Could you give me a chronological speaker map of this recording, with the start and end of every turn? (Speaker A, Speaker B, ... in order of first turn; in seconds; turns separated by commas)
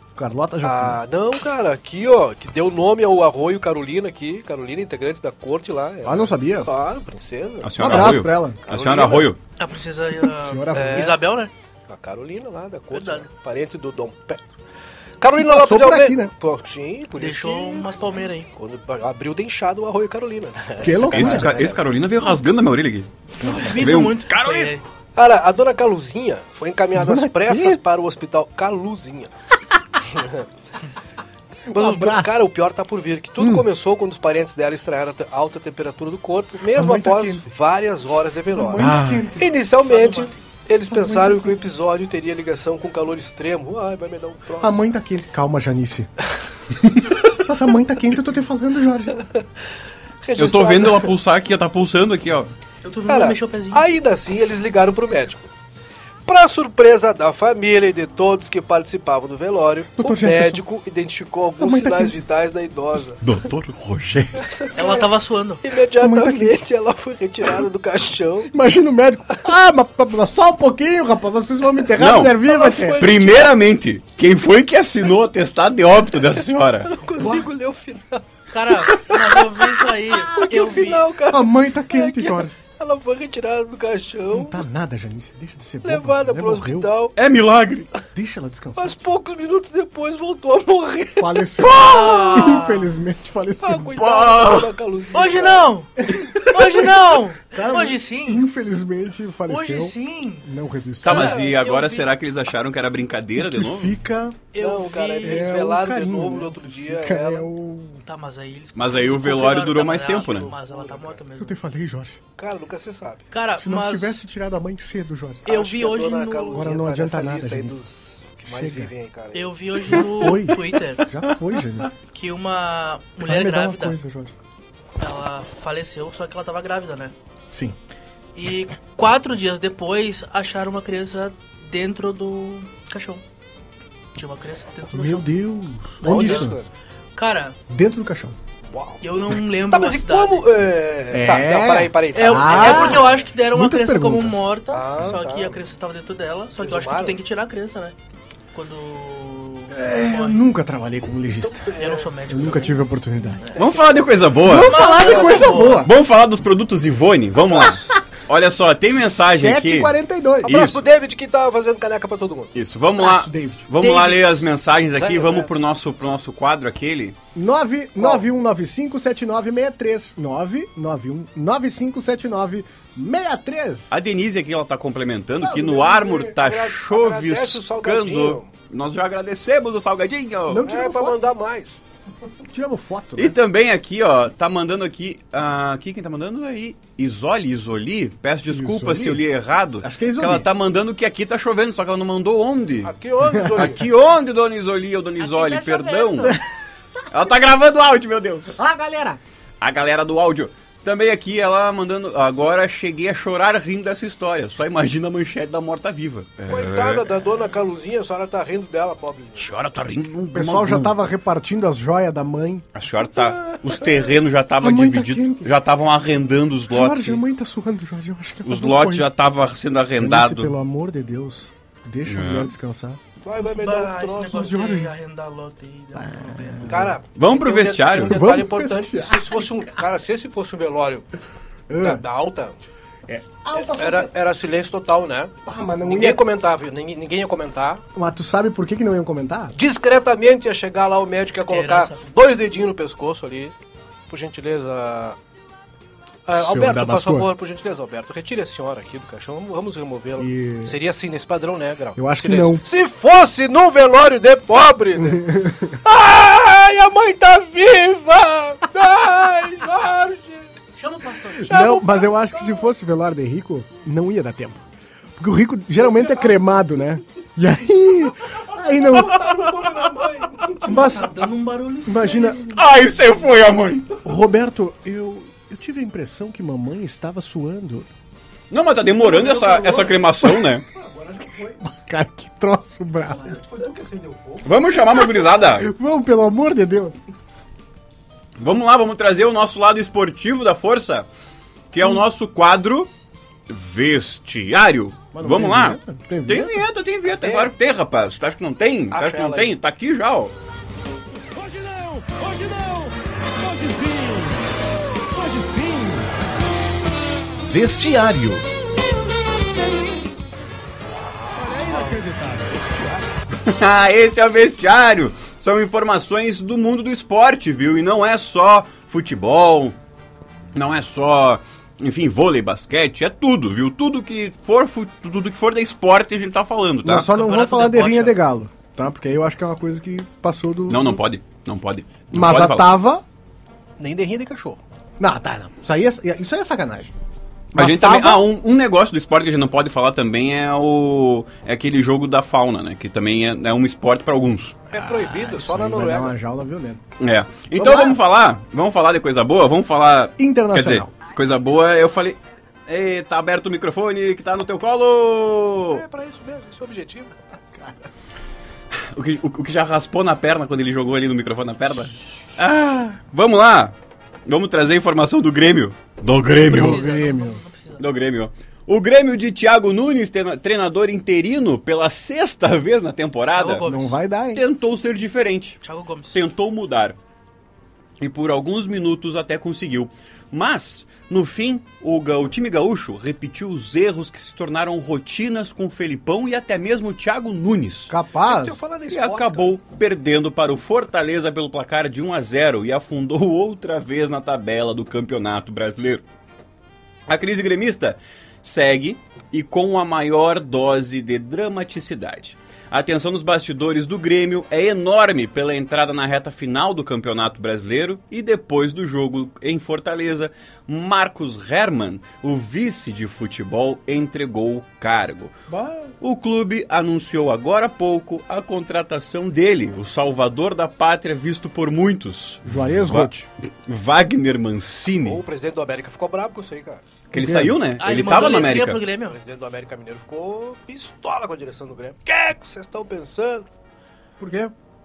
Speaker A: 0.2-1.0, Speaker B: 0.6-9.3, Speaker A: 6.0-6.7, Speaker C: 7.6-9.4, Speaker A: 7.8-8.6, Speaker D: 9.6-11.5, Speaker A: 10.2-11.2, Speaker B: 10.7-11.2, Speaker B: 11.9-14.4, Speaker D: 12.9-13.3, Speaker B: 15.2-21.8, Speaker A: 15.3-16.3, Speaker D: 17.2-18.5, Speaker A: 20.8-21.6, Speaker C: 21.1-24.7, Speaker D: 23.4-24.8, Speaker A: 23.4-24.0, Speaker B: 25.2-29.3, Speaker A: 26.9-27.8, Speaker B: 30.1-30.5, Speaker A: 31.7-32.5, Speaker B: 31.7-44.8, Speaker A: 33.4-33.7, Speaker A: 36.7-37.5, Speaker A: 38.5-39.6, Speaker C: 38.8-39.3, Speaker D: 39.8-40.4, Speaker A: 40.9-41.6, Speaker A: 44.6-46.1, Speaker A: 47.4-49.2, Speaker B: 50.2-51.1, Speaker C: 50.4-52.5, Speaker D: 52.8-54.0, Speaker B: 53.1-55.5, Speaker B: 56.2-63.2, Speaker A: 60.0-60.6, Speaker A: 61.6-62.1, Speaker C: 63.2-64.5, Speaker B: 64.4-68.5, Speaker D: 64.8-65.6, Speaker A: 66.0-66.5, Speaker A: 68.5-73.1, Speaker C: 72.0-72.4, Speaker B: 72.4-73.5, Speaker C: 73.0-77.0, Speaker B: 76.9-84.6, Speaker A: 77.2-77.5, Speaker D: 78.5-81.1, Speaker A: 81.3-82.6, Speaker A: 84.3-86.9, Speaker B: 85.8-87.2, Speaker C: 87.2-87.9, Speaker A: 88.1-89.0, Speaker B: 88.8-91.7, Speaker A: 91.2-94.0, Speaker C: 91.6-92.2, Speaker D: 91.8-92.9, Speaker B: 93.6-95.7, Speaker C: 94.0-94.7, Speaker D: 95.1-98.5, Speaker A: 96.0-101.4, Speaker D: 99.5-100.5, Speaker C: 101.0-104.0, Speaker D: 101.0-102.1, Speaker A: 103.4-104.4, Speaker D: 104.5-105.7, Speaker B: 104.6-107.5, Speaker A: 105.2-108.0, Speaker D: 108.0-111.6, Speaker C: 108.8-110.5, Speaker B: 110.1-111.2, Speaker A: 111.4-112.2, Speaker B: 112.4-113.3, Speaker D: 113.3-114.2, Speaker A: 113.6-115.5, Speaker B: 115.5-120.4, Speaker D: 115.5-116.8, Speaker A: 116.5-117.8, Speaker A: 118.4-118.9, Speaker D: 119.3-121.0, Speaker A: 119.9-121.9, Speaker D: 122.1-124.0, Speaker A: 123.2-124.3, Speaker D: 125.0-127.1, Speaker A: 127.5-127.8, Speaker D: 128.3-133.2, Speaker D: 134.2-135.3, Speaker A: 134.9-136.6, Speaker D: 136.0-136.5, Speaker B: 136.0-136.7, Speaker D: 137.2-137.6, Speaker A: 137.7-138.4, Speaker B: 138.7-139.0, Speaker D: 139.0-140.5, Speaker B: 139.7-143.2, Speaker A: 141.1-144.5, Speaker D: 142.1-147.9, Speaker B: 144.7-145.6, Speaker B: 146.6-147.2, Speaker D: 148.5-150.4, Speaker A: 149.7-151.8, Speaker B: 151.5-152.1, Speaker D: 151.8-152.8, Speaker A: 152.3-153.5, Speaker C: 153.6-160.8, Speaker A: 154.4-155.9, Speaker D: 154.5-155.9, Speaker A: 158.9-160.7, Speaker B: 160.4-162.5, Speaker C: 162.5-167.2, Speaker A: 163.0-163.7, Speaker D: 163.8-164.5, Speaker B: 164.9-165.6, Speaker A: 167.3-174.0, Speaker B: 168.0-168.3, Speaker C: 173.9-180.7, Speaker A: 175.4-176.1, Speaker B: 175.6-178.5, Speaker A: 180.5-181.2, Speaker B: 180.7-181.8, Speaker A: 182.5-183.4, Speaker C: 183.2-192.9, Speaker A: 188.5-189.2, Speaker A: 189.8-190.5, Speaker B: 192.8-193.8, Speaker A: 193.3-193.8, Speaker C: 193.6-196.4, Speaker D: 195.2-196.4, Speaker C: 197.1-198.6, Speaker A: 198.6-199.2, Speaker C: 199.6-207.1, Speaker B: 206.5-209.5, Speaker C: 209.4-210.9, Speaker A: 210.3-212.7, Speaker C: 212.8-217.2, Speaker B: 213.3-213.6, Speaker A: 214.6-215.5, Speaker A: 216.7-219.1, Speaker C: 218.4-220.5, Speaker A: 219.9-223.0, Speaker C: 222.1-222.5, Speaker B: 223.2-224.5, Speaker D: 223.4-226.8, Speaker A: 224.3-224.9, Speaker A: 225.9-227.0, Speaker B: 226.7-231.1, Speaker C: 227.2-228.3, Speaker A: 228.1-229.8, Speaker A: 231.7-232.0, Speaker B: 231.8-232.6, Speaker A: 233.1-234.1, Speaker B: 233.6-237.8, Speaker A: 235.5-236.2, Speaker A: 237.9-239.6, Speaker B: 239.6-243.6, Speaker D: 241.5-242.0, Speaker B: 244.1-245.2, Speaker B: 246.3-255.3, Speaker A: 246.3-247.3, Speaker A: 250.2-250.8, Speaker A: 252.0-252.6, Speaker A: 255.0-255.8, Speaker B: 255.8-260.5, Speaker D: 260.8-261.8, Speaker A: 261.4-264.6, Speaker B: 261.5-262.6, Speaker A: 265.2-269.4, Speaker B: 265.9-266.3, Speaker B: 268.9-270.7, Speaker A: 270.6-271.3, Speaker D: 270.6-272.7, Speaker A: 271.9-272.4, Speaker C: 272.5-274.0, Speaker A: 274.0-277.9, Speaker C: 278.5-280.6, Speaker A: 279.0-287.0, Speaker B: 283.4-284.4, Speaker C: 284.4-285.7, Speaker C: 288.4-291.1, Speaker C: 291.7-292.9, Speaker C: 293.5-300.3, Speaker A: 295.1-296.7, Speaker B: 297.2-297.5, Speaker B: 298.9-299.5, Speaker E: 301.4-304.6, Speaker E: 305.2-306.1, Speaker E: 307.4-308.4, Speaker B: 310.9-312.0, Speaker E: 311.9-312.4, Speaker C: 313.4-319.8, Speaker C: 320.5-327.1, Speaker A: 326.8-331.0, Speaker D: 327.1-328.1, Speaker C: 330.7-332.7, Speaker A: 332.1-333.0, Speaker B: 333.8-334.6, Speaker A: 335.0-336.9, Speaker A: 337.5-338.3, Speaker C: 337.6-344.6, Speaker B: 344.7-346.1, Speaker A: 344.8-346.8, Speaker C: 347.0-355.8, Speaker A: 347.6-348.0, Speaker A: 350.2-350.9, Speaker B: 355.7-357.2, Speaker C: 358.7-363.7, Speaker C: 364.3-366.8, Speaker A: 366.4-367.4, Speaker D: 366.4-367.8, Speaker C: 367.8-373.7, Speaker D: 373.3-374.0, Speaker A: 373.6-374.4, Speaker C: 374.3-375.6, Speaker D: 375.6-376.2, Speaker C: 376.1-377.0, Speaker C: 378.0-387.9, Speaker A: 387.9-388.6, Speaker B: 388.2-389.6, Speaker C: 388.9-396.0, Speaker C: 397.1-415.4, Speaker C: 416.0-423.1, Speaker A: 422.5-423.3, Speaker C: 423.7-425.2, Speaker B: 425.0-426.9, Speaker C: 427.1-428.8, Speaker A: 427.1-427.6, Speaker D: 427.8-429.2, Speaker B: 427.9-433.5, Speaker A: 434.2-434.5